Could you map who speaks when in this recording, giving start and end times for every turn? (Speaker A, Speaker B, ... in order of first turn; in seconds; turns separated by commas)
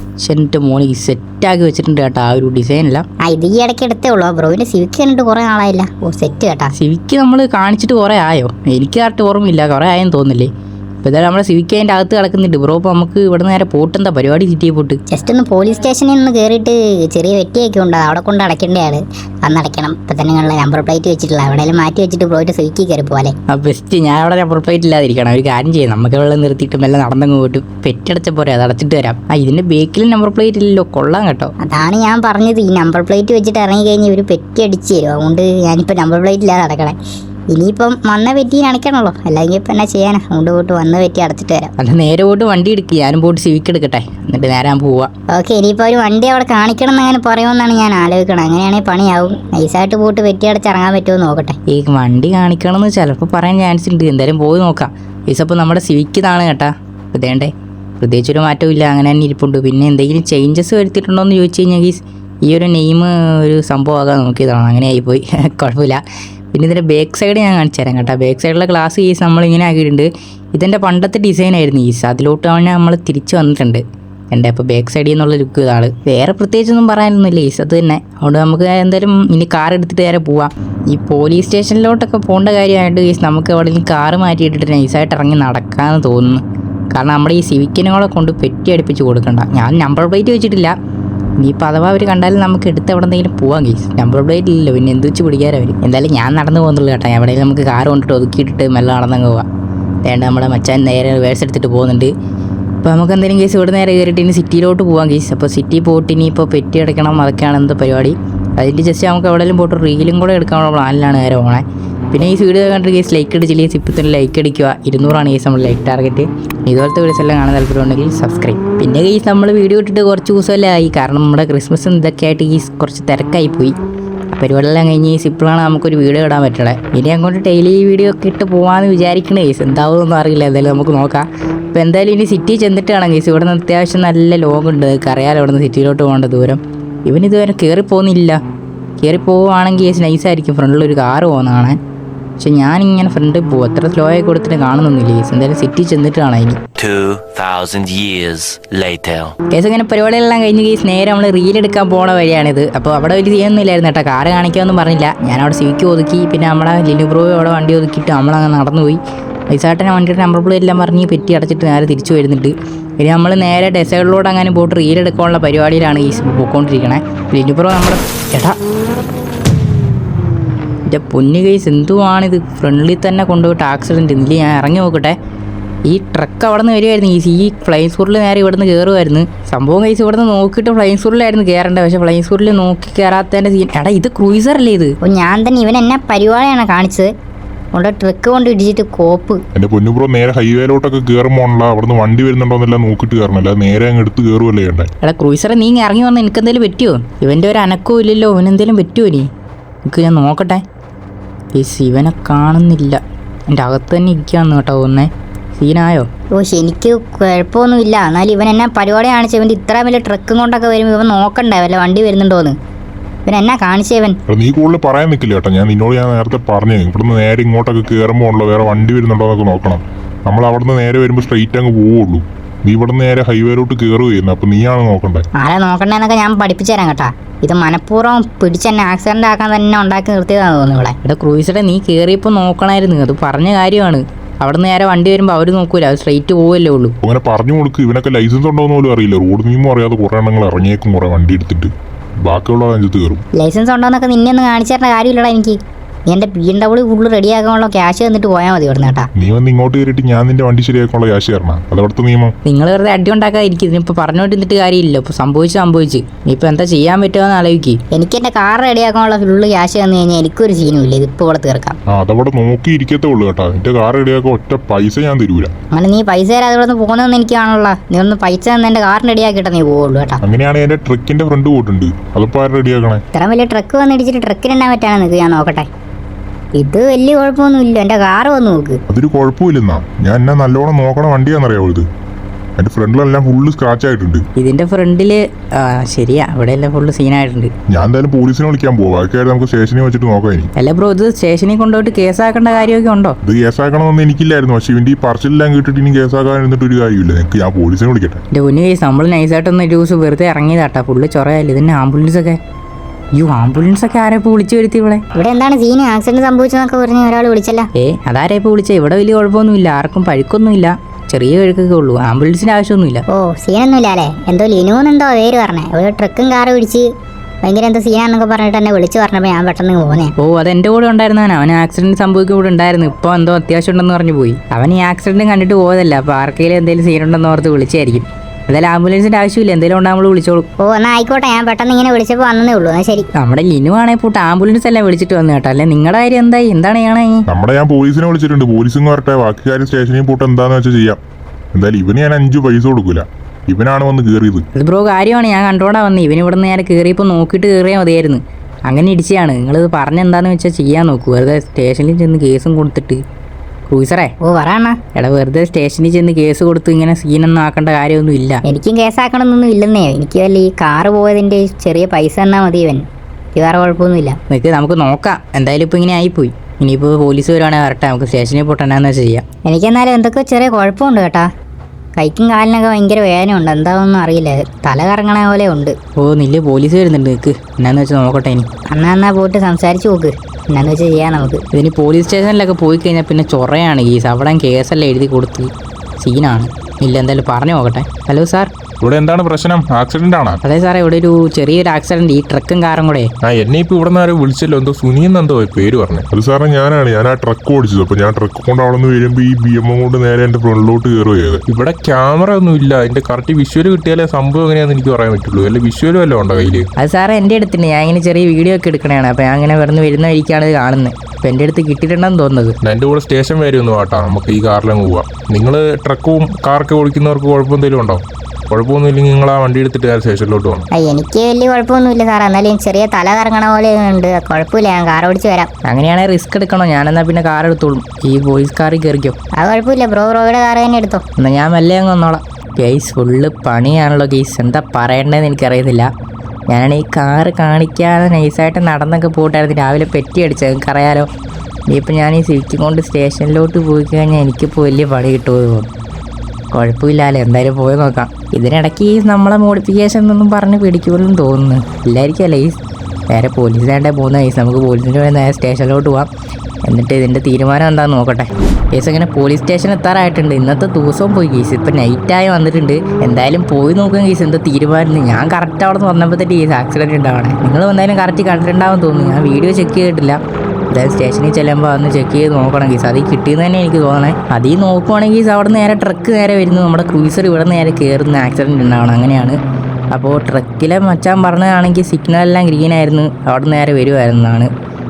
Speaker A: 0.2-3.0, Speaker B: 3.2-6.7, Speaker A: 6.7-10.5, Speaker A: 11.0-15.0, Speaker B: 15.1-23.4, Speaker A: 23.5-31.5, Speaker B: 31.6-37.0, Speaker B: 37.5-41.7, Speaker A: 41.8-45.1, Speaker B: 45.3-51.6, Speaker A: 51.7-90.7, Speaker A: 91.4-99.5, Speaker A: 100.0-102.1, Speaker A: 102.8-123.8, Speaker A: 124.3-138.4, Speaker A: 139.0-141.8, Speaker A: 142.4-146.6, Speaker C: 146.8-149.3, Speaker A: 149.5-168.6, Speaker A: 170.8-175.2, Speaker A: 175.8-184.9, Speaker B: 185.0-187.1, Speaker B: 187.7-189.4, Speaker D: 189.5-194.9, Speaker A: 195.0-199.3, Speaker A: 199.8-200.6, Speaker A: 201.5-206.1, Speaker B: 206.3-212.6, Speaker B: 213.3-214.2, Speaker D: 214.3-225.2, Speaker B: 225.4-230.9, Speaker A: 231.0-236.9, Speaker D: 237.0-241.7, Speaker D: 242.2-243.2, Speaker B: 243.4-249.1, Speaker D: 249.2-252.3, Speaker A: 252.4-257.8, Speaker B: 257.9-261.8, Speaker D: 261.9-265.5, Speaker B: 265.7-270.2, Speaker D: 270.2-273.0, Speaker B: 273.1-275.7, Speaker B: 276.6-278.8, Speaker D: 278.9-281.9, Speaker D: 282.6-284.2, Speaker A: 284.4-287.5, Speaker D: 287.7-290.5, Speaker A: 290.6-293.2, Speaker D: 293.2-298.2, Speaker A: 298.3-302.4, Speaker A: 303.1-305.0, Speaker B: 305.1-307.7, Speaker A: 307.8-313.0, Speaker B: 313.1-316.9, Speaker B: 317.4-320.1, Speaker A: 320.2-330.5, Speaker B: 330.6-333.1, Speaker A: 333.1-337.2, Speaker D: 337.3-341.0, Speaker D: 341.5-344.4, Speaker A: 344.5-353.0, Speaker A: 353.6-354.1, Speaker B: 354.2-354.8, Speaker A: 354.9-358.4, Speaker B: 358.4-364.2, Speaker A: 364.3-369.2, Speaker B: 369.4-371.3, Speaker B: 372.0-375.7, Speaker A: 376.0-378.5, Speaker B: 378.7-381.4, Speaker A: 381.5-388.5, Speaker E: 388.8-390.4, Speaker A: 390.4-393.1, Speaker E: 393.2-396.0, Speaker D: 396.1-401.4, Speaker E: 401.5-406.6, Speaker A: 406.8-412.6, Speaker E: 412.6-420.6, Speaker B: 420.7-425.5, Speaker A: 425.6-429.2, Speaker B: 429.4-431.0, Speaker A: 431.2-435.9, Speaker A: 436.5-441.1, Speaker A: 441.7-445.7, Speaker A: 446.5-452.6, Speaker A: 453.1-456.1, Speaker A: 456.6-479.4, Speaker A: 479.9-484.5